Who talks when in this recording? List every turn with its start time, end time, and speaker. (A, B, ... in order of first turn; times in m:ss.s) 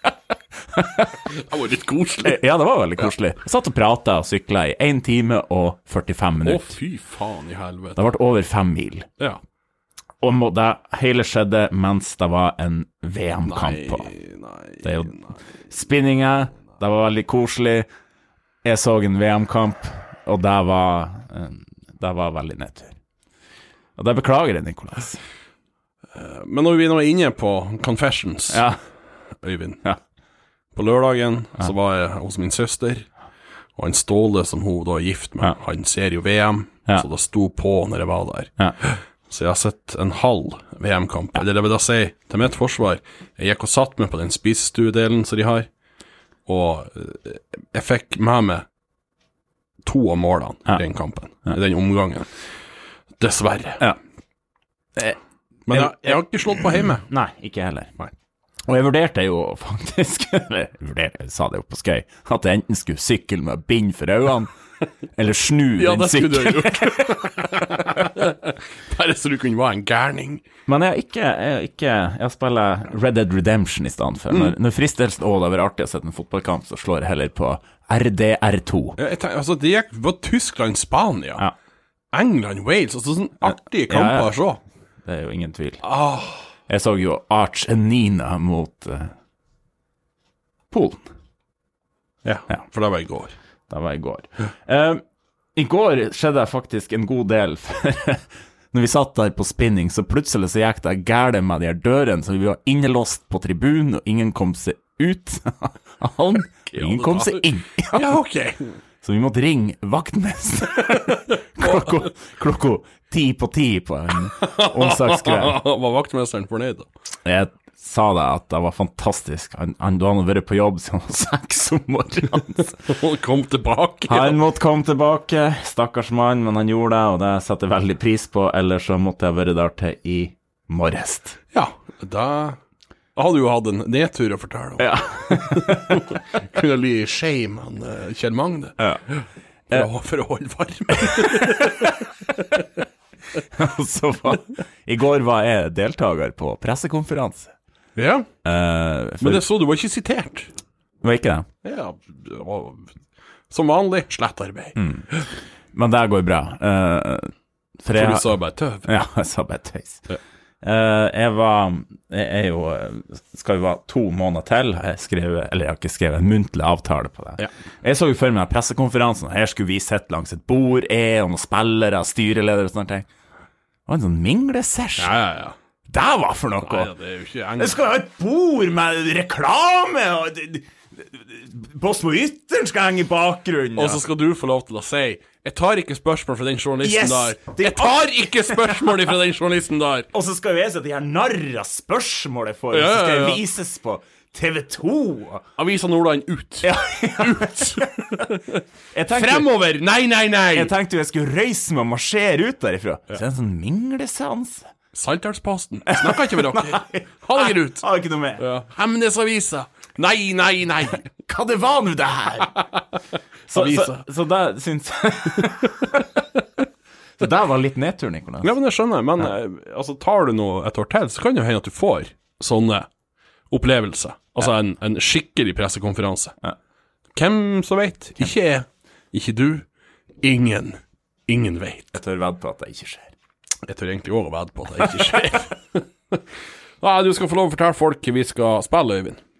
0:00.7-0:01.3 A
0:01.3-0:02.4 B
0:02.2-0:06.8 A
0:06.4-0:08.0 B
0:08.0-0:09.1 A
0:10.2-0:14.1 A
0:13.5-0:15.4 B
0:14.8-0:15.1 A
0:15.7-0:17.9 A
0:18.6-0:23.0 A
0:24.0-0:25.2 A
0:26.2-0:28.7 B
0:28.5-0:28.8 A
0:29.4-0:29.8 B
0:30.7-0:33.1 B
0:33.8-0:45.7 B
0:46.5-0:48.7 B
0:49.8-0:52.3 B
0:53.2-0:53.9 B
0:55.7-0:57.1 B
0:55.7-0:56.2 A
0:56.8-0:58.0 A
0:58.7-1:04.5 A
1:05.2-1:07.3 A
1:05.8-1:10.4 B
1:10.7-1:19.0 A
1:19.0-1:21.5 B
1:22.1-1:24.6 B
1:23.4-1:24.3 A
1:25.0-1:25.8 A
1:25.8-1:26.4 B
1:26.7-1:29.1 A
1:30.7-1:31.1 A
1:32.2-1:33.4 B
1:33.7-1:35.0 A
1:35.6-1:48.1 A
1:46.7-1:48.8 B
1:49.0-1:55.6 A
1:51.6-1:51.9 B
1:54.4-1:56.9 B
1:57.2-2:02.8 A
2:02.8-2:04.4 B
2:04.1-2:11.4 A
2:11.5-2:12.6 B
2:13.2-2:22.0 B
2:14.8-2:16.0 A
2:21.0-2:21.9 A
2:23.5-2:27.5 A
2:28.0-2:28.3 B
2:28.4-2:29.4 A
2:29.2-2:30.5 B
2:31.0-2:31.5 A
2:31.6-2:32.9 B
2:33.5-2:34.8 B
2:34.8-2:35.1 A
2:35.7-2:40.0 A
2:37.9-2:38.9 B
2:40.6-2:53.1 A
2:53.9-2:55.1 A
2:55.0-2:55.6 B
2:55.9-2:56.9 A
2:56.6-2:57.8 B
2:57.6-3:04.0 A
3:03.8-3:10.1 B
3:06.8-3:09.1 A
3:10.1-3:15.5 A
3:12.7-3:13.4 B
3:15.6-3:20.7 B
3:16.6-3:18.3 A
3:18.9-3:19.5 A
3:20.5-3:24.7 A
3:24.9-3:27.9 B
3:25.9-3:28.4 A
3:28.4-3:31.1 B
3:31.0-3:32.5 A
3:33.5-3:36.0 A
3:33.5-3:34.0 B
3:37.2-3:38.5 A
3:38.4-3:42.9 B
3:43.5-3:46.4 B
3:47.1-3:49.7 B
3:50.2-3:51.9 B
3:51.9-3:53.1 A
3:53.6-3:56.2 B
3:56.8-3:59.2 B